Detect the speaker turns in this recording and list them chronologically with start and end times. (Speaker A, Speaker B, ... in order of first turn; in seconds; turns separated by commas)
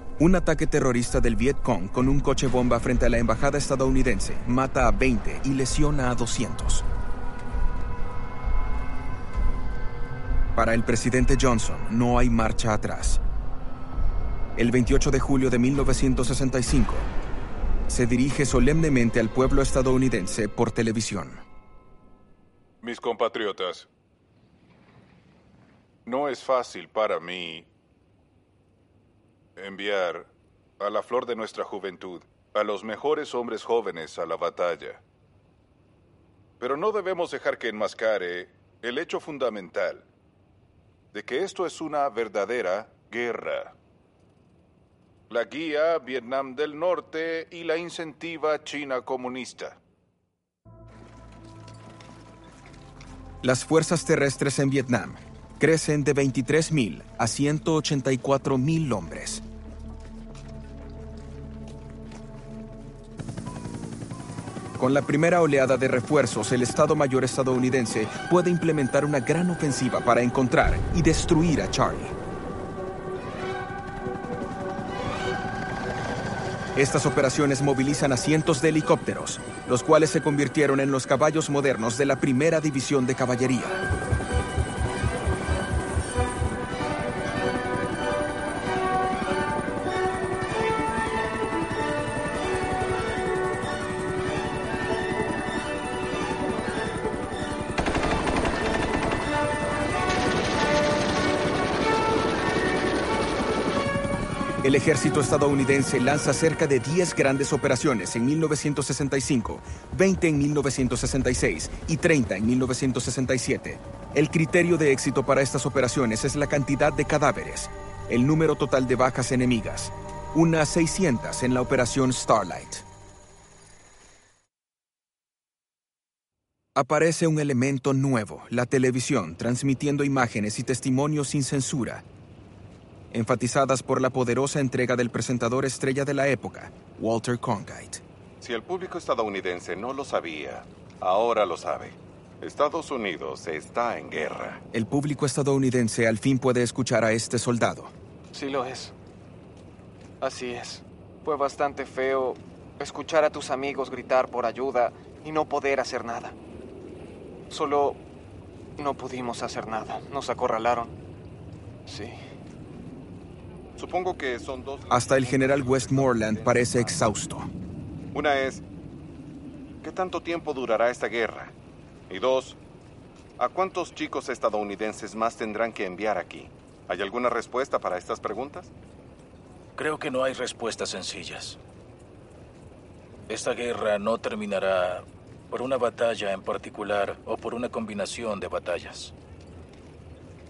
Speaker A: 0.2-6.9, Speaker A: 10.6-13.2, Speaker A: 14.6-17.1, Speaker A: 17.9-21.4, Speaker B: 22.8-23.9, Speaker B: 26.1-27.7, Speaker B: 29.6-35.0, Speaker B: 36.6-40.0, Speaker B: 41.1-43.8, Speaker B: 45.3-49.8, Speaker A: 53.4-59.4, Speaker A: 64.8-72.1, Speaker A: 76.8-83.8, Speaker A: 104.6-122.9, Speaker A: 126.8-132.0, Speaker A: 133.1-138.0, Speaker C: 138.4-144.6, Speaker A: 144.7-147.9, Speaker D: 148.3-148.9, Speaker D: 150.2-156.4, Speaker D: 157.5-158.0, Speaker D: 158.8-160.9, Speaker D: 161.9-162.2, Speaker C: 163.8-167.1, Speaker A: 164.9-167.5, Speaker C: 168.1-168.6, Speaker C: 169.8-171.5, Speaker C: 172.1-172.6, Speaker C: 173.4-178.7, Speaker E: 179.8-181.6, Speaker E: 183.3-189.1